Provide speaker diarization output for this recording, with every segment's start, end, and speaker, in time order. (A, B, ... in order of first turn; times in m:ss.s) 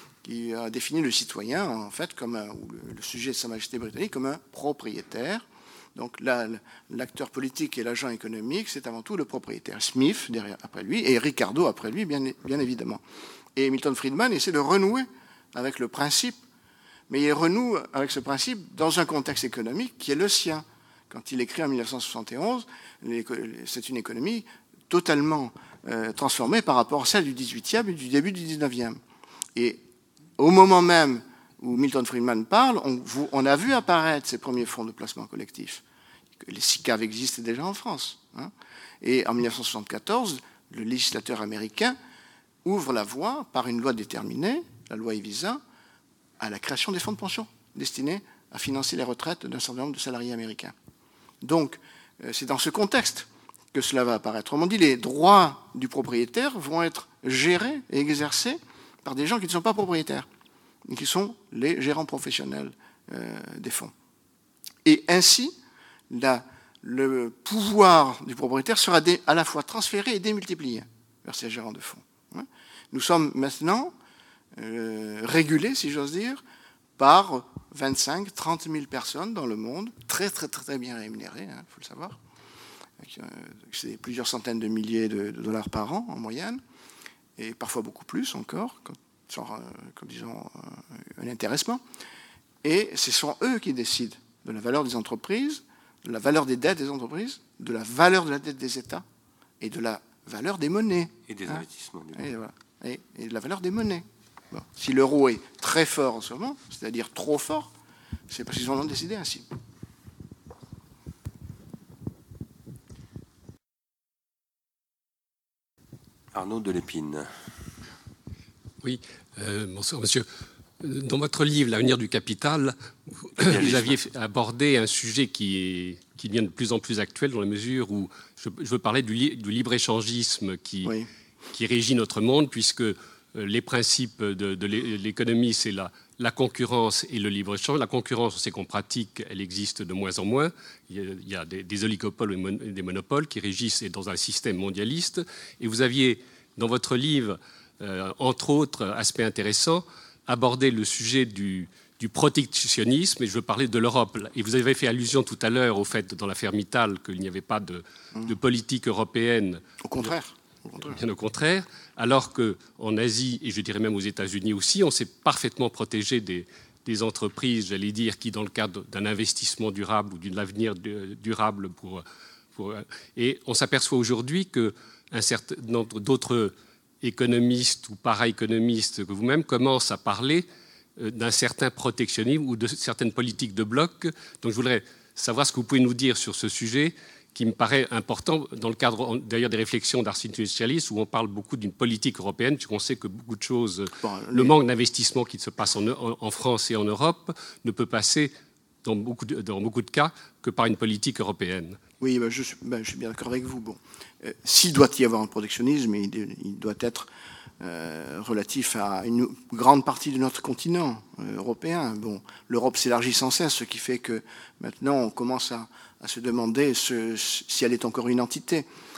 0:00.2-0:13.0 A
0:13.6-0:16.4 A
0:17.1-0:29.0 A
0:29.6-0:29.8 A
0:30.4-0:35.8 A
0:36.4-0:42.0 A
0:42.6-0:45.6 A
0:46.4-0:50.7 A
0:51.4-1:00.3 A
1:00.8-1:03.9 A
1:04.8-1:05.5 A
1:06.1-1:13.9 A
1:14.6-1:16.4 A
1:17.0-1:22.2 A
1:23.0-1:26.6 A
1:27.4-1:31.8 A
1:32.6-1:39.0 A
1:39.6-1:41.6 A
1:41.3-1:42.3 B
1:42.2-1:47.7 A
1:48.3-1:49.5 A
1:56.3-1:57.3 B
1:58.8-2:00.3 C
2:00.8-2:11.0 C
2:03.4-2:04.0 B
2:11.5-2:39.6 C
2:39.8-2:41.0 A
2:40.9-2:52.0 C
2:52.6-3:00.4 C
3:01.0-3:18.3 C
3:14.0-3:14.5 A
3:18.8-3:21.8 C
3:22.0-3:27.1 A
3:27.6-3:38.7 A